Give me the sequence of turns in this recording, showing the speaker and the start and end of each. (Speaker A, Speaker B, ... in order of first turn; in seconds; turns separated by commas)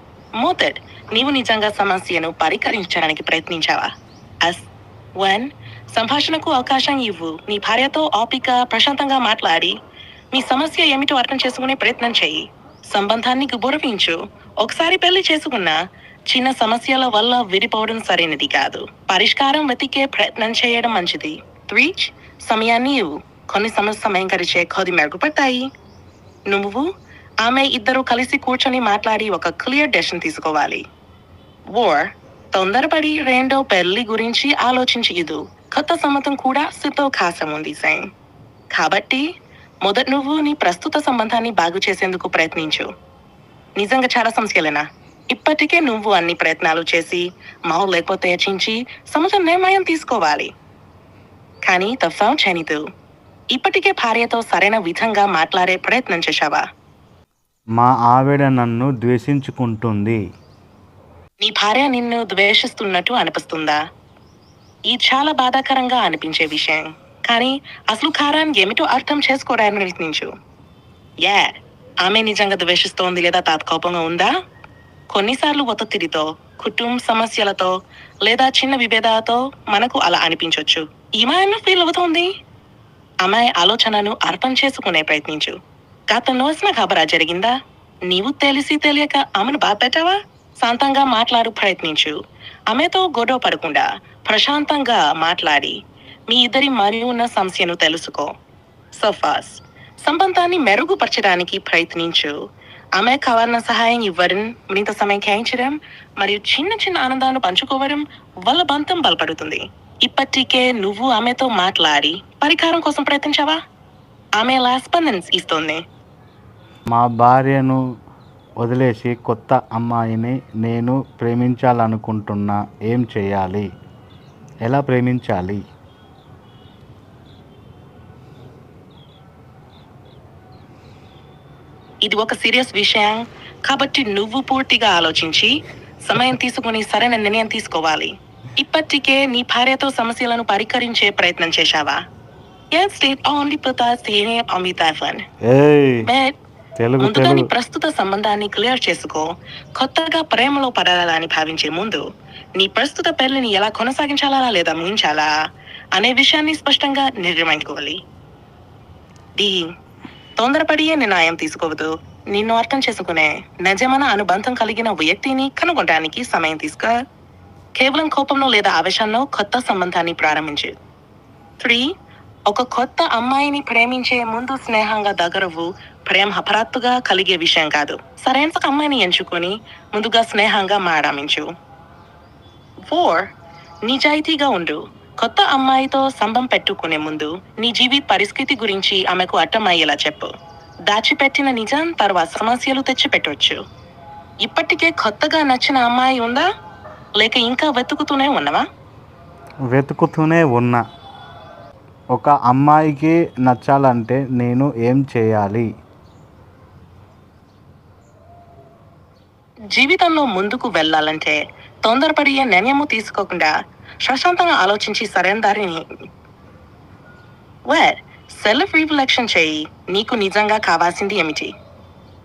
Speaker A: 0.4-3.9, Speaker A: 4.4-4.7, Speaker A: 5.2-9.8, Speaker A: 10.3-15.8, Speaker A: 16.3-25.7, Speaker A: 26.5-26.9, Speaker A: 27.4-30.8, Speaker A: 31.7-38.1, Speaker A: 38.7-39.2, Speaker A: 39.8-42.9, Speaker A: 43.8-50.5, Speaker A: 51.6-52.8, Speaker A: 53.5-56.6, Speaker B: 57.8-60.2, Speaker A: 61.4-63.8, Speaker A: 64.9-70.3, Speaker A: 71.2-74.3, Speaker A: 75.1-77.7, Speaker A: 78.2-82.3, Speaker A: 83.2-85.6, Speaker A: 86.1-87.5, Speaker A: 88.1-92.2, Speaker A: 92.7-98.3, Speaker A: 98.9-102.3, Speaker A: 103.0-113.6, Speaker A: 114.4-115.8, Speaker B: 116.9-117.8, Speaker B: 118.6-123.7, Speaker B: 124.7-125.6, Speaker A: 132.0-142.0, Speaker A: 142.7-145.2, Speaker B: 145.4-146.1, Speaker A: 146.0-146.3, Speaker B: 146.8-147.5, Speaker A: 147.0-152.0, Speaker A: 152.6-155.3, Speaker A: 155.9-158.0, Speaker A: 159.4-159.7, Speaker A: 160.4-166.9, Speaker A: 167.7-170.8, Speaker A: 171.6-171.9, Speaker A: 172.5-181.5, Speaker A: 182.9-183.3, Speaker A: 183.8-190.3, Speaker A: 190.9-193.6, Speaker A: 194.4-196.5, Speaker A: 197.2-198.6, Speaker B: 199.7-200.8, Speaker B: 202.1-205.7, Speaker A: 209.7-213.5, Speaker A: 214.0-215.9, Speaker A: 217.7-221.5